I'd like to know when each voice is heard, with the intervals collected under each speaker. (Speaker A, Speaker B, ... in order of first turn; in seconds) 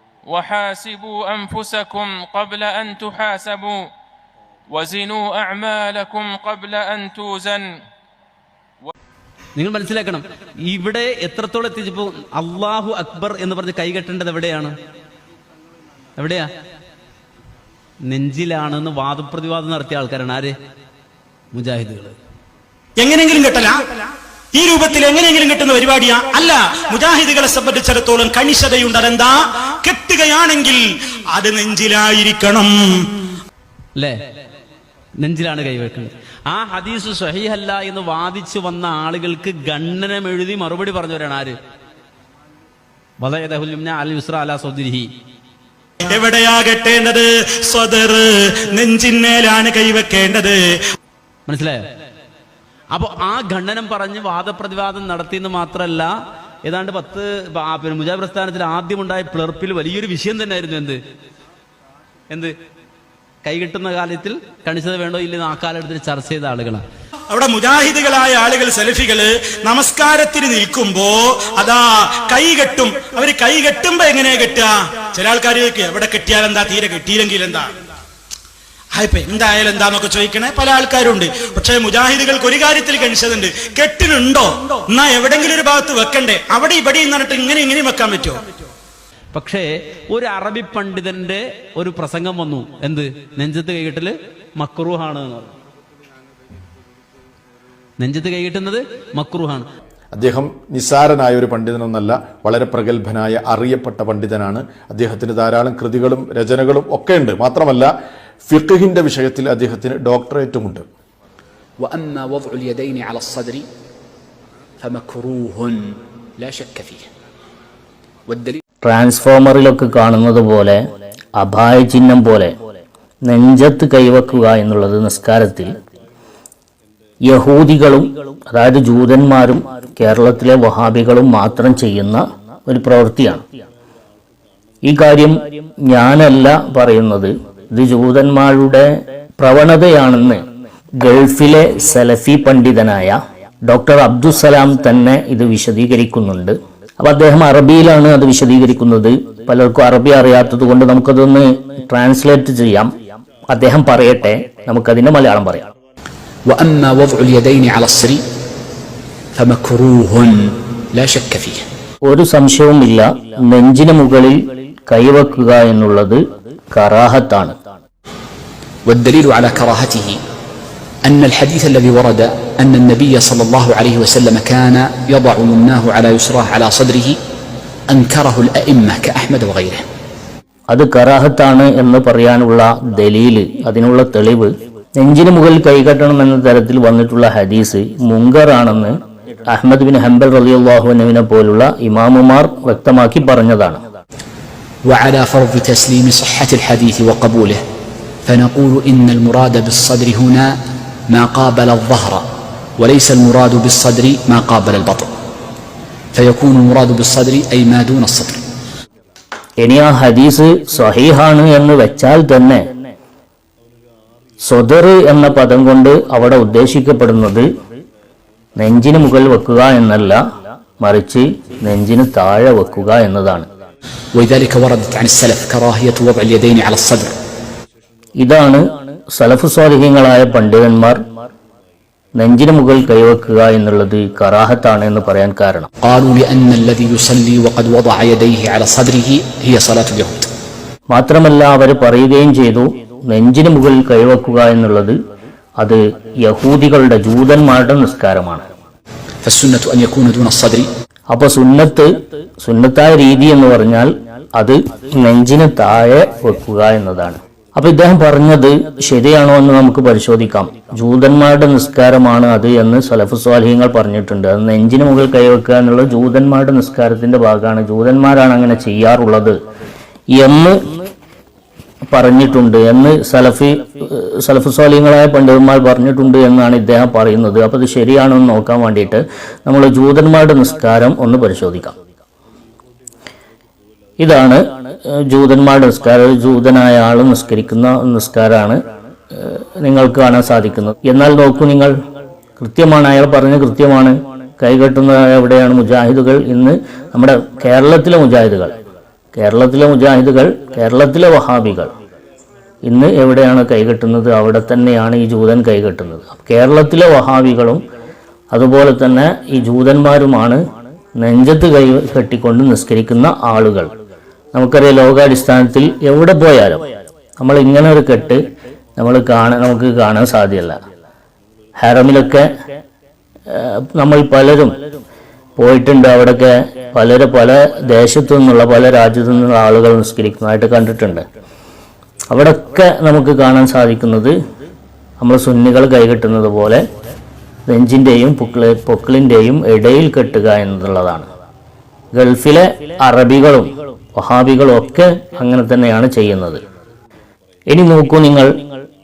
Speaker A: 0.3-3.9, 4.7-7.7
Speaker B: 9.6-14.7, 16.2-16.4, 18.1-20.5, 21.5-22.1, 35.2-41.5, 43.2-45.1, 51.5-51.8, 52.9-56.1, 56.6-61.0, 63.4-66.8, 89.3-95.5, 98.0-99.7
Speaker C: 23.0-24.0, 24.5-29.3, 29.8-30.8, 31.4-32.7, 46.0-50.6, 67.3-77.7, 78.9-88.4
Speaker D: 100.1-107.9, 108.5-110.8
Speaker E: 111.8-113.6, 114.8-117.1, 118.3-118.6, 156.5-158.2, 159.3-161.6, 168.9-170.2, 171.0-177.2, 177.9-179.8, 194.9-197.6, 198.2-200.6, 201.1-202.2, 202.8-205.1, 206.1-208.4, 224.1-227.2, 235.8-240.3, 249.2-250.7
Speaker F: 118.8-120.8, 121.4-122.5, 123.2-125.8, 127.3-133.4, 134.8-138.8, 139.4-140.4, 141.0-152.9, 153.5-155.7, 162.1-166.2, 166.7-167.5, 180.7-188.9, 189.5-193.8, 209.6-212.6, 214.4-217.4, 218.6-220.2, 220.8-223.4, 228.2-231.0, 232.2-235.7, 240.9-244.9, 245.6-248.4, 251.1-269.3, 270.1-270.6, 271.9-281.7, 284.0-288.6, 289.1-291.7, 292.4-298.5, 299.1-301.7, 302.6-307.6, 308.3-310.4, 311.0-313.7, 314.3-316.6, 317.2-318.2, 318.8-320.6, 321.6-322.2, 323.3-324.6, 325.4-331.0, 332.1-334.1, 335.0-336.6, 337.5-341.1, 341.9-346.4, 347.5-348.4